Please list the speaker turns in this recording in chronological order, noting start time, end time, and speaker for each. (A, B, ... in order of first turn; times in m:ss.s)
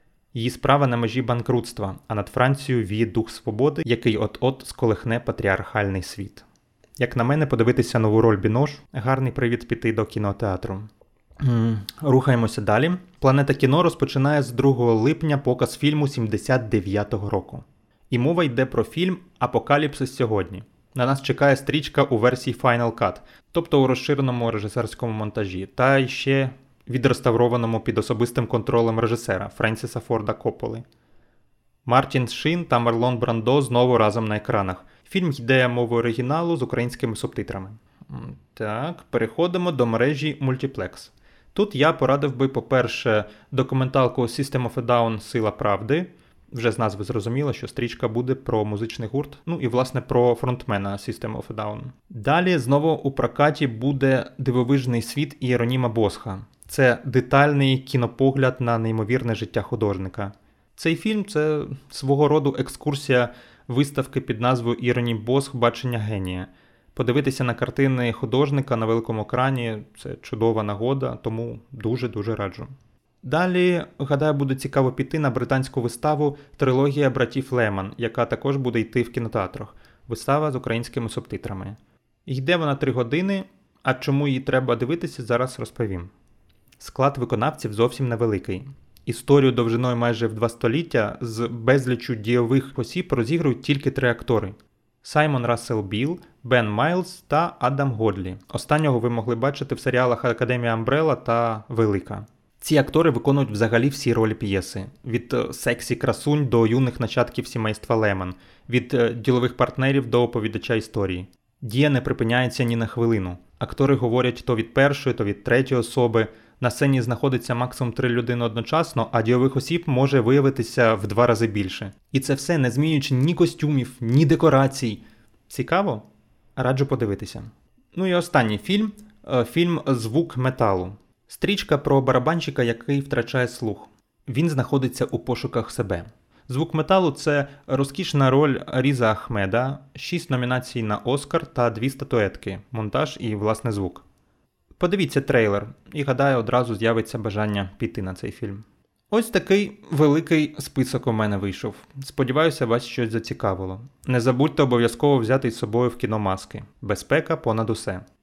0:00.3-0:06.4 A
0:07.0-0:10.9 A
0:11.4-0:30.8 A
0:31.8-1:12.7 A
1:13.2-1:26.1 A
1:26.8-2:06.0 A
2:06.6-2:24.0 A
2:24.8-2:38.0 A